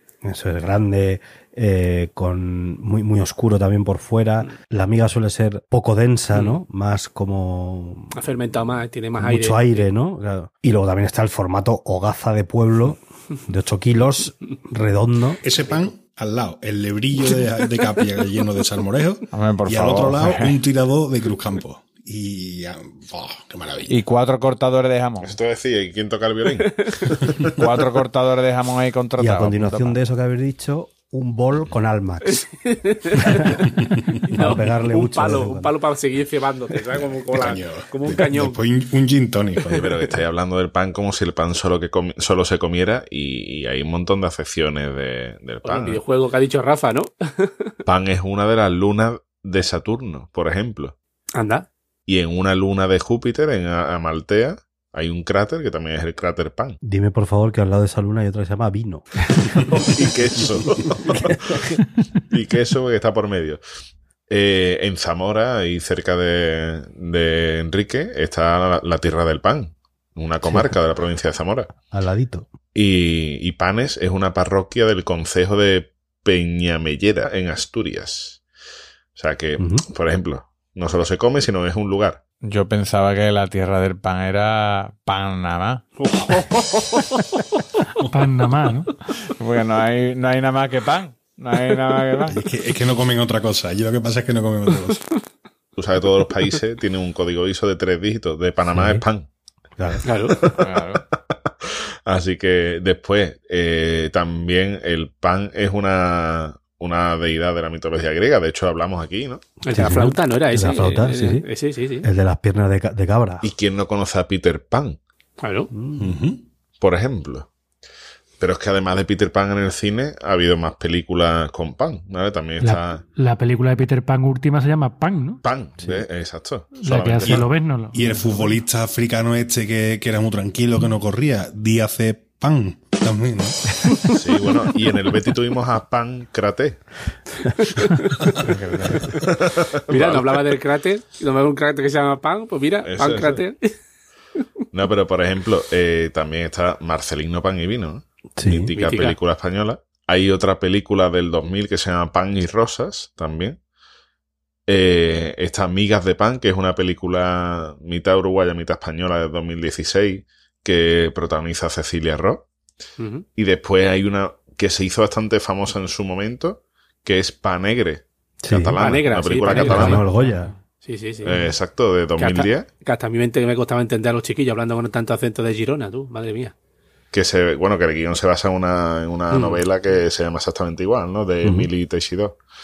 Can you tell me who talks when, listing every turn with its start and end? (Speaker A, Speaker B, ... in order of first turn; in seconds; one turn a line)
Speaker A: 0.2-8.1
Speaker B: 8.1-9.8
Speaker A: 9.2-15.4
Speaker C: 15.4-24.0
Speaker D: 19.3-20.6
Speaker D: 23.9-25.4
Speaker E: 25.2-27.5
Speaker B: 26.6-27.1
Speaker D: 27.5-30.0
Speaker A: 29.2-32.4
Speaker B: 32.3-33.6
Speaker A: 33.1-33.7
Speaker B: 34.2-38.6
Speaker A: 34.3-35.7
Speaker C: 37.3-40.0
Speaker E: 39.7-46.0
Speaker B: 45.6-47.7
Speaker E: 47.8-50.9
Speaker B: 51.3-51.7
Speaker E: 52.1-56.8
Speaker A: 56.8-59.0
Speaker E: 59.8-61.7
Speaker E: 62.3-63.6
Speaker E: 64.3-71.7
Speaker A: 70.4-70.8
Speaker A: 71.9-72.5
Speaker E: 72.7-78.4
Speaker E: 79.1-82.2
Speaker A: 79.6-79.8
Speaker D: 82.4-85.8
Speaker F: 88.1-88.9
Speaker D: 89.2-92.4
Speaker C: 92.3-95.0
Speaker E: 95.8-99.3
Speaker A: 98.7-99.0
Speaker A: 99.8-100.0
Speaker B: 100.0-100.5
Speaker E: 100.2-100.6
Speaker D: 100.6-101.0
Speaker E: 102.0-109.4
Speaker B: 109.6-112.1
Speaker A: 109.7-111.5
Speaker A: 112.0-113.5
Speaker E: 113.4-115.0
Speaker B: 115.4-115.7
Speaker A: 115.7-116.2
Speaker C: 116.0-116.4
Speaker E: 116.8-117.5
Speaker E: 118.4-123.0
Speaker F: 122.6-125.4
Speaker E: 125.4-127.5
Speaker F: 126.8-128.6
Speaker C: 127.2-133.6
Speaker E: 134.1-136.8
Speaker B: 137.9-138.5
Speaker D: 138.4-139.1
Speaker E: 139.1-140.5
Speaker B: 139.9-143.7
Speaker E: 142.8-143.4
Speaker E: 144.7-153.6
Speaker A: 148.3-148.7
Speaker B: 148.8-149.2
Speaker E: 154.7-162.4
Speaker B: 163.0-163.2
Speaker E: 163.4-170.0
Speaker A: 168.4-168.8
Speaker B: 168.8-170.1
Speaker F: 169.5-170.6
Speaker A: 169.5-170.5
Speaker B: 170.8-171.4
Speaker E: 171.2-172.7
Speaker B: 172.2-176.5
Speaker E: 177.1-182.4
Speaker B: 179.3-179.6
Speaker A: 181.4-181.7